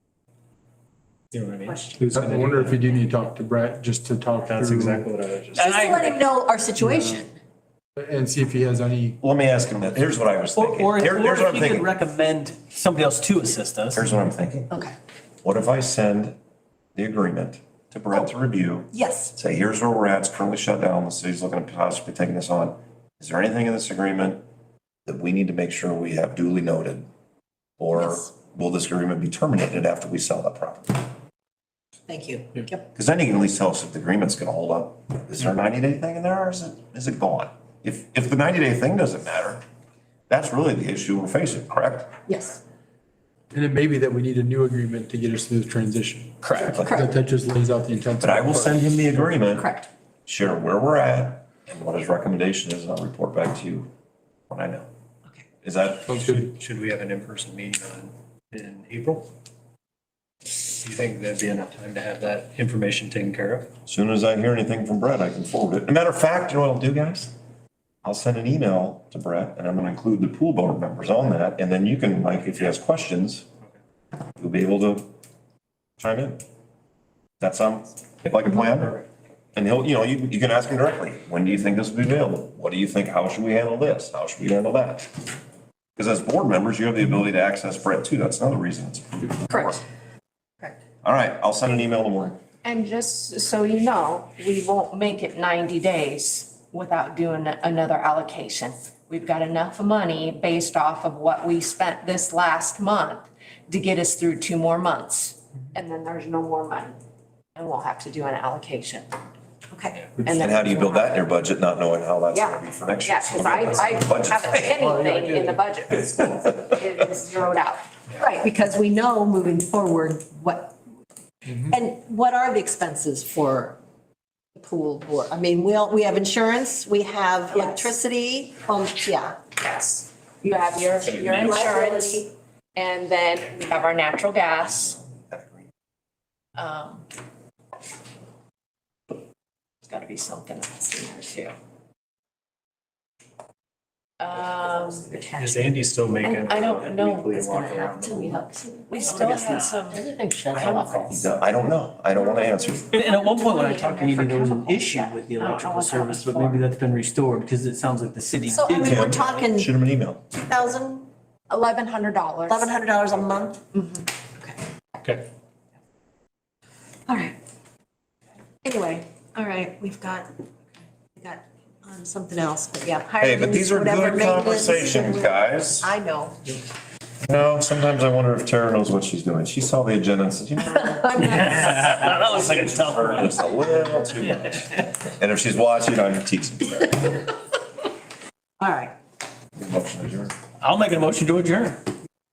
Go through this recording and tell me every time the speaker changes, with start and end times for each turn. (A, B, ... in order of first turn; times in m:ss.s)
0:01.3-0:02.9 A
0:01.6-0:02.0 B
0:02.1-0:05.1 C
0:04.4-0:05.7 A
0:05.6-0:06.2 D
0:05.6-0:07.3 B
0:06.8-0:07.2 C
0:08.0-0:09.2 C
0:09.2-0:11.9 E
0:10.6-0:14.0 D
0:13.9-0:14.7 E
0:15.4-0:16.4 E
0:17.0-0:24.4 E
0:18.9-0:19.3 B
0:25.0-0:27.1 E
0:27.8-0:31.0 E
0:28.0-0:28.3 B
0:32.1-0:32.8 B
0:32.9-0:39.6 E
0:40.3-0:42.1 E
0:42.3-0:42.6 B
0:43.5-0:49.4 C
0:46.4-0:46.8 D
0:46.6-0:47.0 E
0:46.8-0:47.1 B
0:48.2-0:49.7 E
0:49.6-0:49.9 B
0:50.2-0:53.9 E
0:54.5-0:54.9 E
0:55.6-0:56.3 E
0:56.1-0:56.5 C
0:56.2-0:59.3 A
1:00.5-1:03.7 A
1:03.9-1:07.3 E
1:08.0-1:13.4 E
1:14.4-1:15.1 E
1:16.0-1:16.4 E
1:17.4-1:19.0 E
1:18.3-1:19.0 A
1:19.6-1:25.1 E
1:26.0-1:29.8 E
1:29.5-1:29.8 B
1:31.0-1:32.4 E
1:32.6-1:47.0 F
1:47.6-1:49.1 F
1:49.7-1:50.1 B
1:50.2-1:51.2 F
1:50.3-1:54.8 E
1:52.3-1:57.8 F
1:54.7-1:55.6 C
1:58.2-2:00.8 B
2:01.7-2:03.8 B
2:04.5-2:09.4 B
2:07.5-2:07.9 F
2:09.6-2:15.0 F
2:11.3-2:12.3 B
2:14.6-2:15.7 E
2:16.6-2:17.1 F
2:19.8-2:21.5 F
2:24.2-2:25.3 F
2:24.7-2:25.7 B
2:25.3-2:28.5 A
2:26.2-2:27.9 F
2:27.6-2:31.1 B
2:28.8-2:31.3 F
2:29.1-2:29.8 D
2:31.1-2:32.9 E
2:32.2-2:36.7 F
2:32.9-2:39.4 D
2:38.5-2:39.7 B
2:38.8-2:40.2 E
2:40.3-2:41.1 B
2:41.5-2:42.7 F
2:42.5-2:43.6 B
2:43.7-2:44.1 F
2:47.1-2:47.3 B
2:48.6-2:50.3 B
2:51.2-2:56.6 B
2:53.2-2:55.9 E
2:57.2-3:01.2 E
3:00.8-3:01.7 B
3:01.2-3:03.4 D
3:02.6-3:07.2 E
3:08.6-3:08.9 B
3:09.6-3:10.3 E
3:10.6-3:11.8 D